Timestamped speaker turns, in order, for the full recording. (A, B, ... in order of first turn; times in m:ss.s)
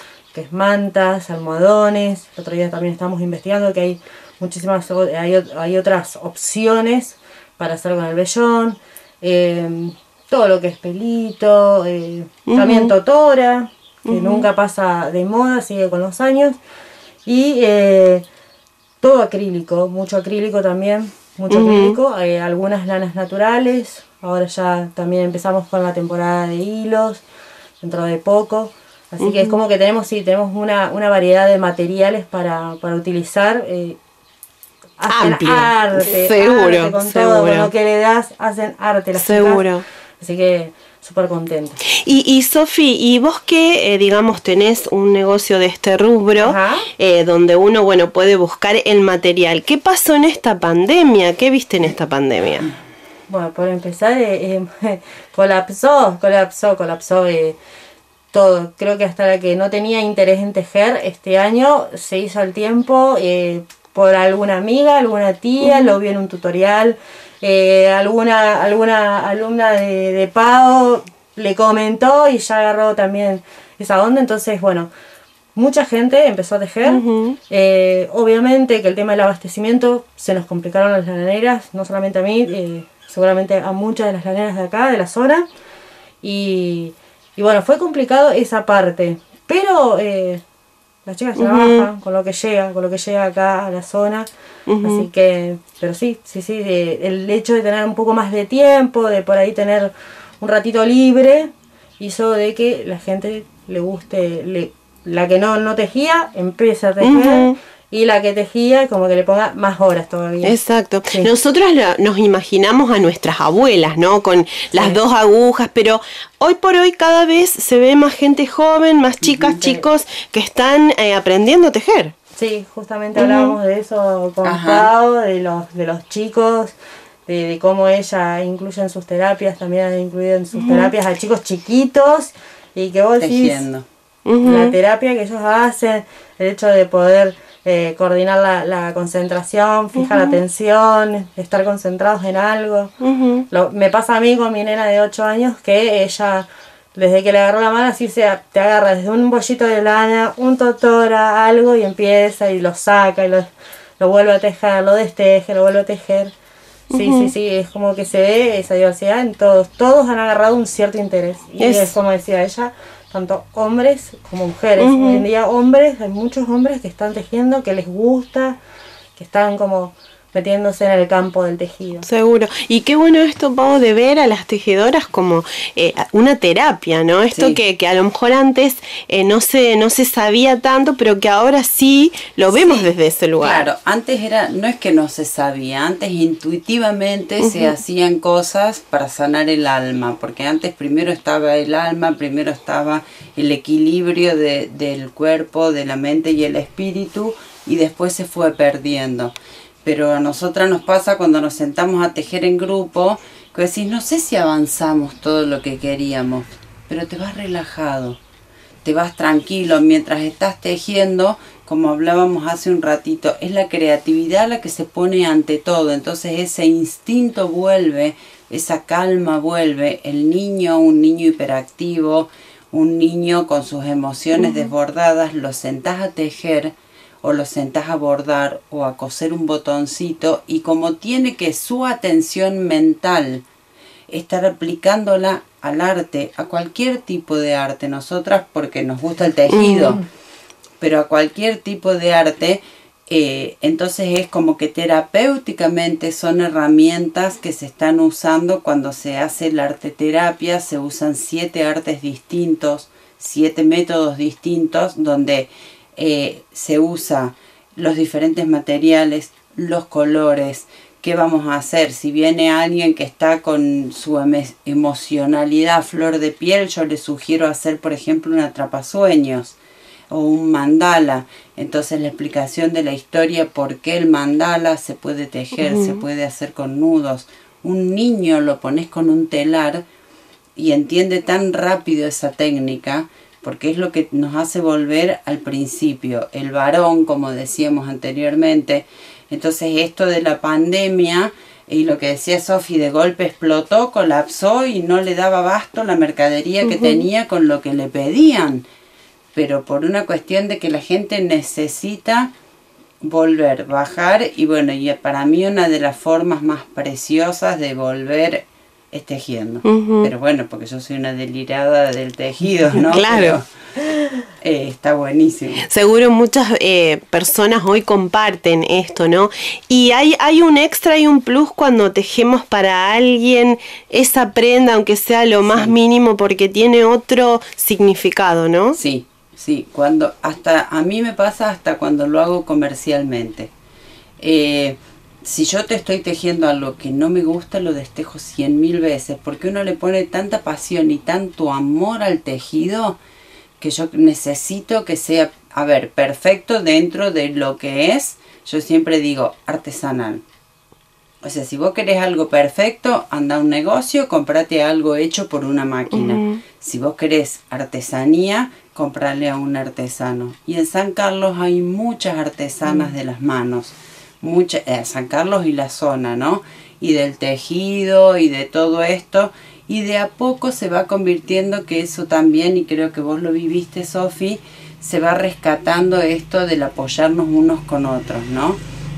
0:00.3-0:16.6 A
0:12.5-0:12.9 B
0:14.1-0:14.5 B
0:17.3-0:18.2 A
0:19.0-0:27.2 A
0:21.5-0:22.0 B
0:27.8-0:34.0 A
0:29.2-0:29.6 B
0:35.0-0:39.7 A
0:35.1-0:37.7 B
0:39.2-0:39.8 B
0:40.2-0:41.8 A
0:41.9-0:52.7 B
0:46.4-0:46.9 A
0:53.3-0:57.6 A
0:58.3-1:14.9 A
1:05.6-1:05.9 B
1:15.6-1:25.5 A
1:16.8-1:17.4 B
1:26.2-1:30.4 A
1:31.1-1:34.3 A
1:31.4-1:31.9 B
1:34.7-1:35.1 B
1:34.8-1:50.6 A
1:47.0-1:47.6 B
1:50.4-2:02.1 B
1:54.7-1:55.0 A
1:59.2-1:59.6 C
2:02.4-2:06.7 A
2:03.2-2:03.6 B
2:04.4-2:04.9 C
2:07.3-2:13.7 A
2:10.5-2:10.9 B
2:13.2-2:13.8 C
2:14.3-2:14.8 B
2:14.4-2:22.9 A
2:20.0-2:20.4 B
2:23.0-2:23.4 B
2:23.5-2:33.5 A
2:34.0-2:36.3 A
2:36.9-2:37.3 B
2:36.9-2:48.6 A
2:41.6-2:42.0 B
2:44.8-2:45.3 B
2:49.2-2:52.1 A
2:52.0-3:03.7 B
2:57.3-2:57.6 C
3:02.5-3:28.2 C
3:07.4-3:07.8 B
3:28.8-3:53.4 C
3:44.4-3:44.7 B
3:54.1-4:00.0 C
3:59.5-4:00.0 B
4:00.8-4:29.6 C
4:30.1-4:39.8 C
4:35.6-4:36.0 B
4:40.6-4:58.6 C
4:56.6-4:57.1 B
4:59.3-5:02.3 C
5:03.0-5:13.5 C
5:09.6-5:10.1 B
5:12.9-5:13.4 B
5:14.4-5:15.6 C
5:15.6-5:28.8 B
5:25.5-5:25.8 C
5:28.7-5:33.5 C
5:34.2-5:43.0 C
5:43.6-5:50.2 C
5:51.2-6:18.6 C
5:55.9-5:56.4 B